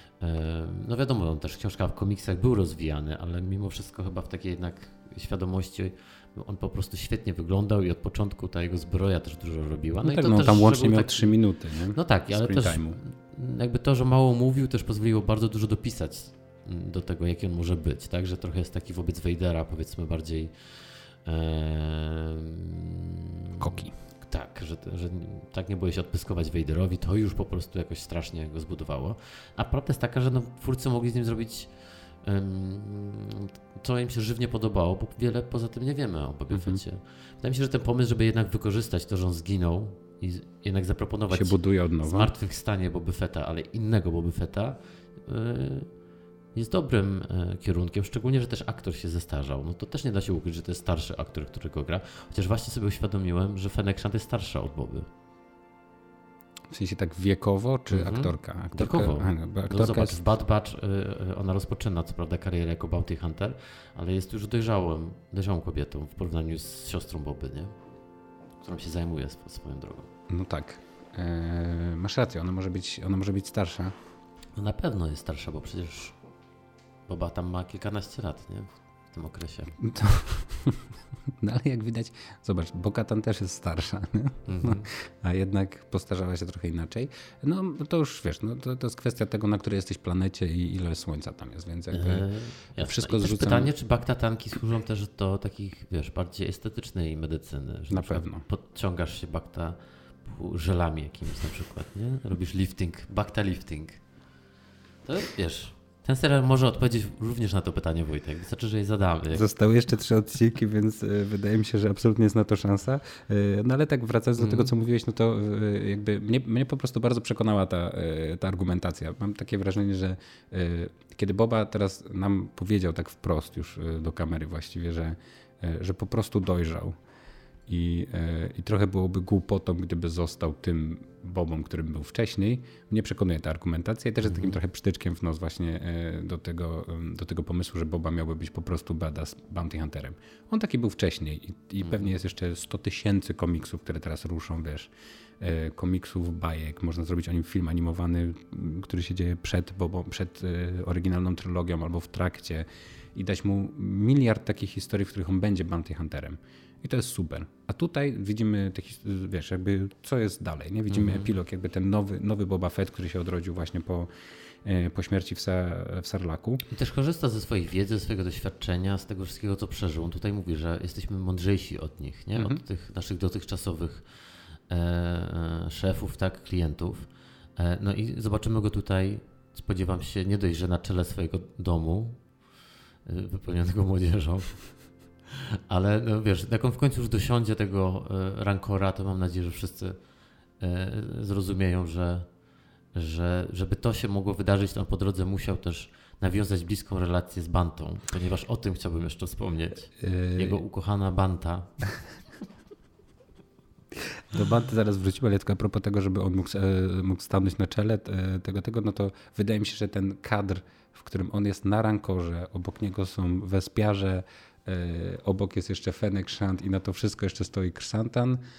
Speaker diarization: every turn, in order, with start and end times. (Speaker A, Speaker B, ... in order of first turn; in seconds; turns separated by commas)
Speaker A: 0.2-11.4, Speaker B: 10.0-13.0, Speaker A: 11.9-45.9, Speaker B: 23.6-23.9, Speaker B: 36.5-36.8, Speaker B: 41.3-42.3, Speaker A: 46.5-55.1, Speaker B: 56.7-60.2, Speaker A: 57.9-67.7, Speaker A: 68.6-70.1, Speaker B: 70.3-73.9, Speaker A: 74.5-76.2, Speaker A: 77.1-79.8, Speaker B: 79.8-80.8, Speaker B: 81.4-93.7, Speaker A: 84.5-84.9, Speaker A: 91.9-104.0, Speaker B: 97.9-98.4, Speaker A: 105.0-109.5, Speaker B: 109.3-127.0, Speaker A: 114.4-114.7, Speaker B: 127.7-164.1, Speaker A: 134.2-134.6, Speaker A: 141.8-142.1, Speaker A: 160.9-161.3, Speaker B: 164.6-166.6, Speaker A: 166.7-174.1, Speaker B: 172.3-172.6, Speaker A: 174.7-182.2, Speaker A: 183.0-184.8, Speaker A: 185.3-190.0, Speaker A: 190.6-192.3, Speaker A: 192.9-201.8, Speaker B: 200.0-200.6, Speaker B: 204.0-218.4